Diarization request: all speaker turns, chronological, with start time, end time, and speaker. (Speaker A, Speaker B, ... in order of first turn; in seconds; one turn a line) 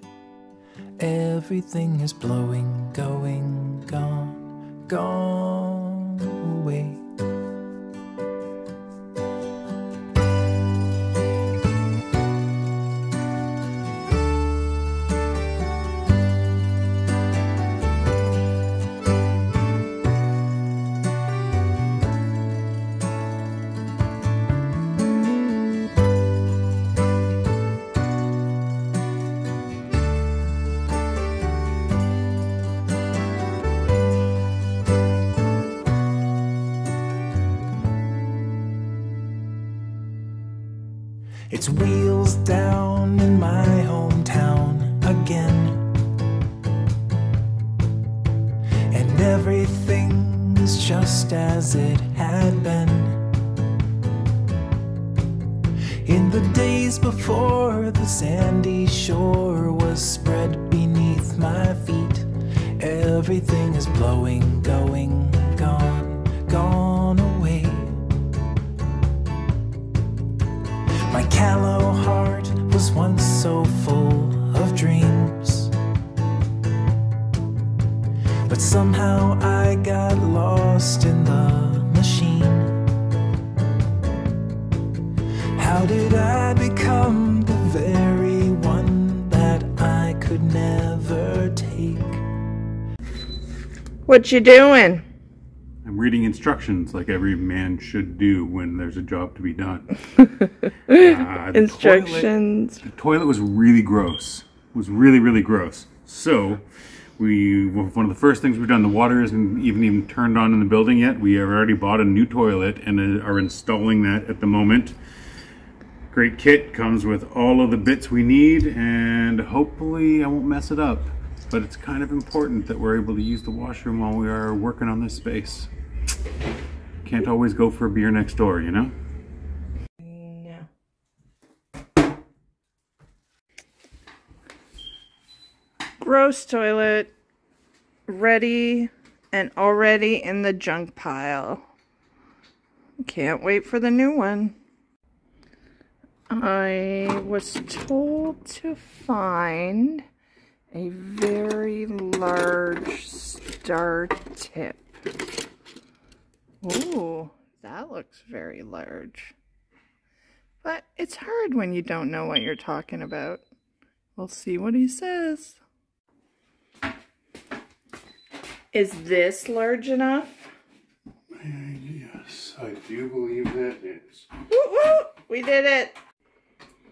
Speaker A: 1.0-7.0
Speaker A: 41.5-45.9
Speaker A: 48.9-53.2
Speaker A: 56.0-68.0
Speaker A: 71.1-75.7
Speaker A: 78.5-82.8
Speaker A: 85.6-92.2
Speaker B: 94.1-95.0
Speaker C: 95.8-100.3
Speaker B: 100.9-102.8
Speaker C: 100.9-102.3
Speaker C: 102.8-106.6
Speaker C: 107.2-115.0
Speaker C: 116.1-125.7
Speaker C: 127.0-128.9
Speaker B: 130.0-130.7
Speaker B: 136.0-137.1
Speaker B: 138.1-141.6
Speaker B: 143.0-144.6
Speaker B: 146.3-150.0
Speaker B: 150.7-154.9
Speaker B: 156.6-159.3
Speaker B: 160.6-163.4
Speaker B: 164.2-165.6
Speaker B: 168.7-170.5
Speaker C: 171.3-174.2
Speaker B: 174.5-176.0